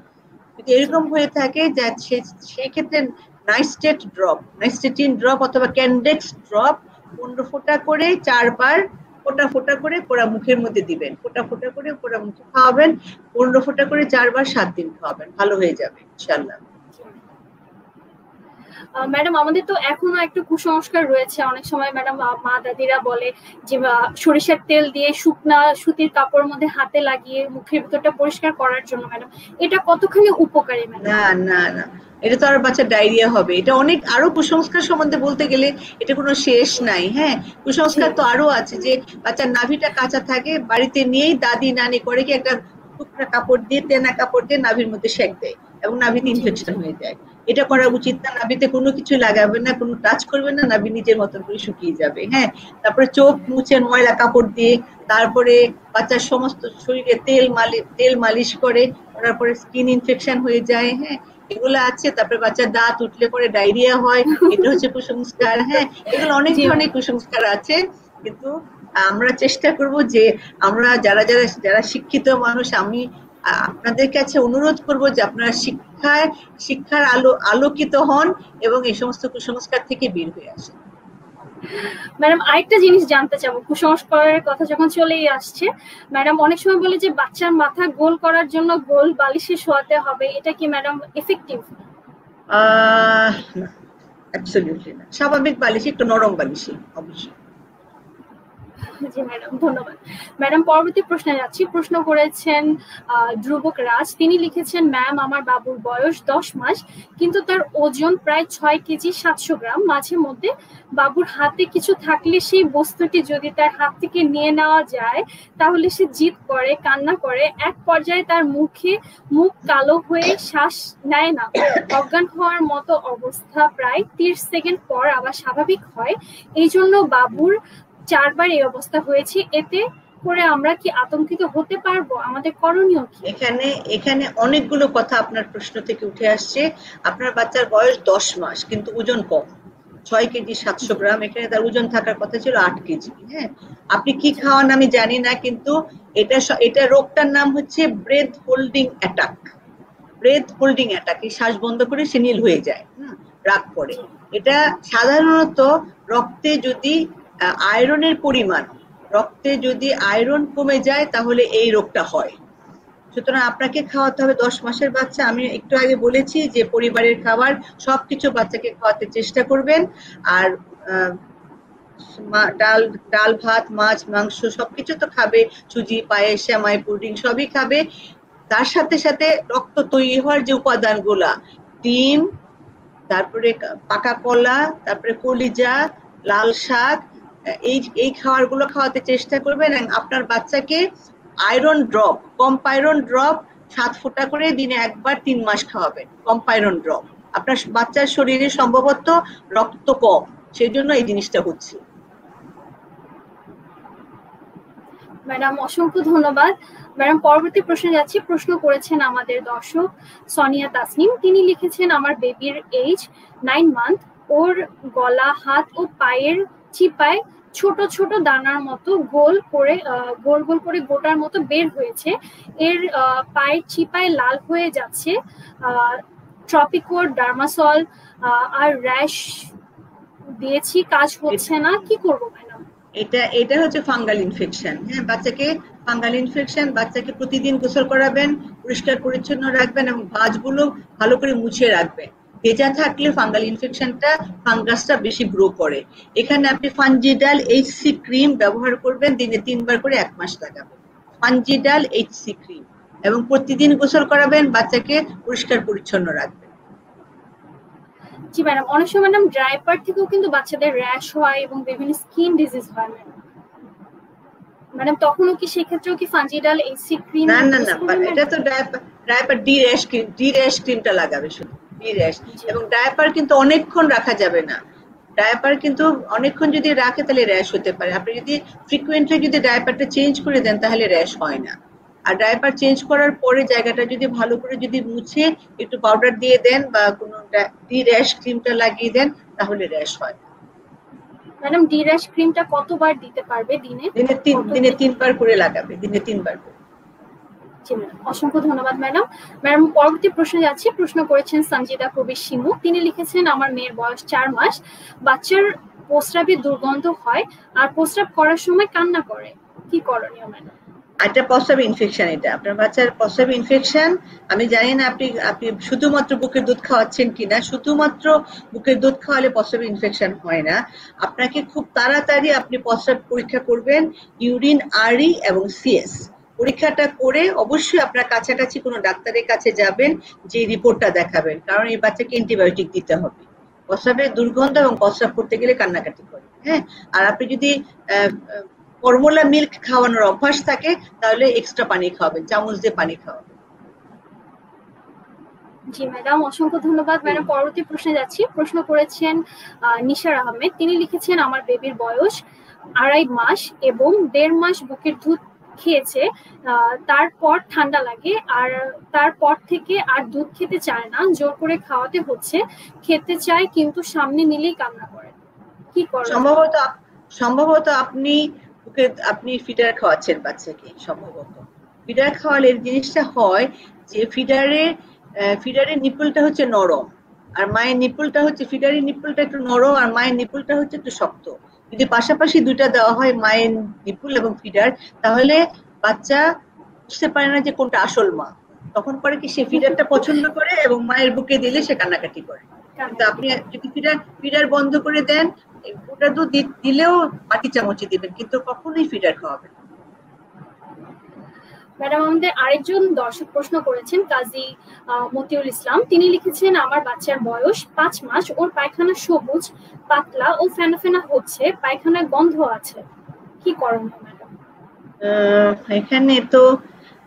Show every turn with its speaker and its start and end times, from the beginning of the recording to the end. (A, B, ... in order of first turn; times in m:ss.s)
0:00.6-0:16.6 A
0:19.0-0:31.2 B
0:31.0-1:20.8 A
0:46.3-0:46.6 B
1:06.5-1:06.8 B
1:21.8-1:31.7 B
1:32.5-1:33.7 A
1:34.3-1:37.4 A
1:39.0-2:13.3 B
2:13.2-2:19.5 A
2:20.1-2:29.5 A
2:30.2-2:42.4 A
2:43.1-2:51.2 A
2:52.1-2:57.8 A
2:58.5-3:02.3 A
3:03.1-3:07.0 A
3:07.6-3:10.8 A
3:11.4-3:21.8 A
3:25.3-3:49.5 B
3:50.4-3:52.6 B
3:53.0-4:16.5 A
4:18.3-4:23.2 B
4:24.8-4:28.2 B
4:27.3-4:34.6 A
4:35.2-4:41.6 A
4:42.1-4:50.2 A
4:51.4-4:54.8 B
4:54.0-4:56.6 A
4:57.7-5:10.5 B
5:11.0-5:43.4 A
5:45.7-5:52.2 B
5:52.8-6:05.2 B
6:05.8-6:06.3 B
6:06.1-6:14.7 A
6:15.2-6:26.2 A
6:26.9-6:39.5 A
6:32.8-6:33.2 B
6:41.8-6:52.8 B
6:53.4-6:54.3 B
6:55.0-6:56.5 A